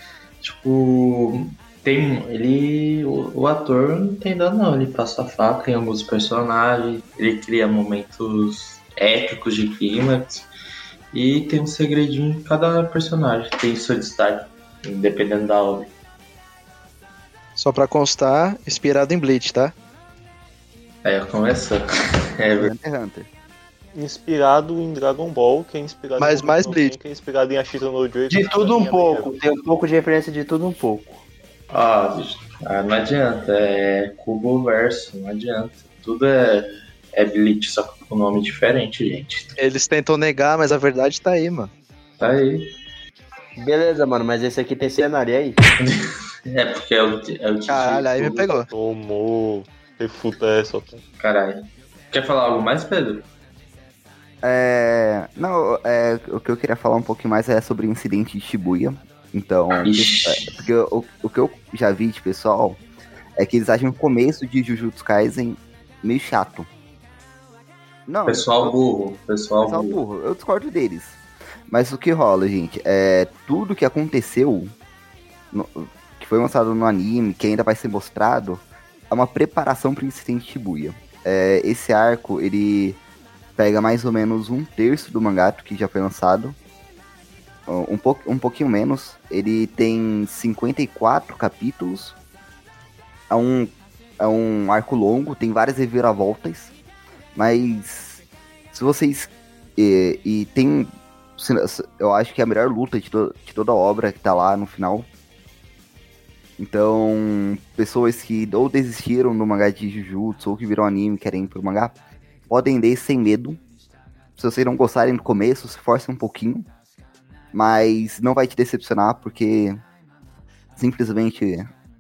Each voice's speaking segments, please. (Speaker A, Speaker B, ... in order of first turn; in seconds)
Speaker A: 0.4-10.5, 11.1-15.9, 21.0-22.7, 31.7-39.5, 42.2-42.7, 45.8-48.5, 51.2-53.3, 59.8-60.6, 68.2-70.0
Speaker B: 17.6-19.7, 26.2-26.9, 39.6-41.7, 47.7-48.7
Speaker C: 22.6-23.3, 54.4-62.8, 63.4-66.7, 68.1-68.8, 69.6-74.7, 75.5-83.0, 83.6-86.5, 87.7-92.1, 93.3-96.7, 97.3-98.2, 98.7-105.1, 106.6-111.9, 112.5-113.6, 114.4-116.7, 117.5-119.8, 120.8-121.7
Speaker D: 23.9-29.3, 48.7-51.0
Speaker E: 28.3-31.2, 43.6-45.6